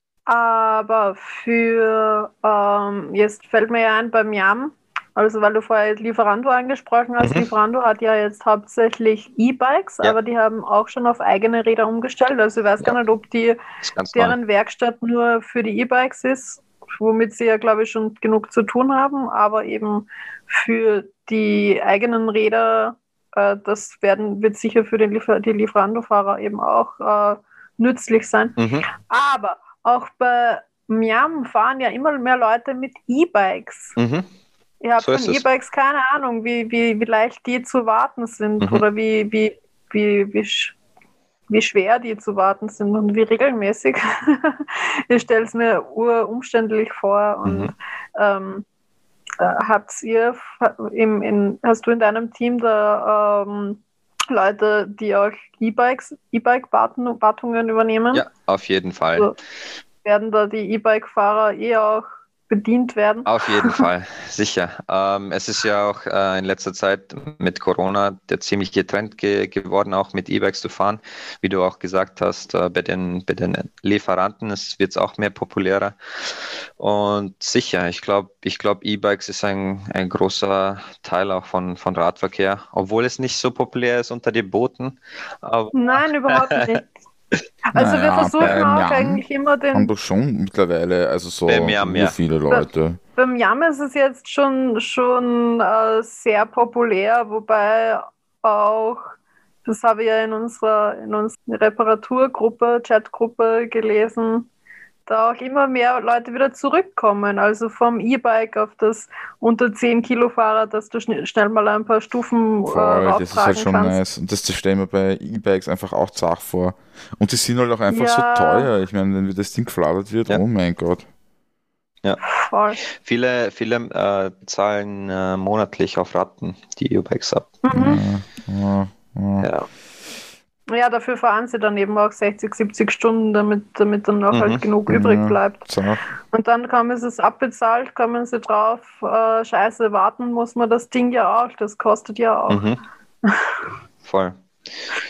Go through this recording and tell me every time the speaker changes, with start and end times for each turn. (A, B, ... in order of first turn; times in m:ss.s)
0:00.3-0:13.6 A
0:07.2-0:07.4 B
0:13.8-0:14.4 B
0:14.1-0:33.9 A
0:28.6-0:28.9 B
0:34.0-0:34.3 B
0:34.8-0:40.8 A
0:35.0-0:35.4 B
0:41.5-0:48.6 A
0:47.4-0:47.7 B
0:49.4-0:58.2 A
0:58.1-0:59.3 B
1:00.0-1:03.8 A
1:03.2-1:26.8 B
1:25.7-1:26.9 A
1:27.7-1:29.9 A
1:27.7-1:33.0 C
1:31.5-1:32.2 B
1:32.5-1:44.5 A
1:45.1-1:54.0 A
1:52.7-2:01.0 C
1:57.9-1:58.7 A
2:02.3-2:02.8 A
2:02.9-2:07.6 B
2:07.6-2:08.0 A
2:07.7-2:09.5 C
2:09.4-2:09.7 B
2:10.7-2:15.6 A
2:14.3-2:14.6 B
2:14.9-2:16.0 C
2:16.3-2:22.6 A
2:22.5-2:22.8 B
2:23.2-2:23.6 A
2:24.0-2:24.4 B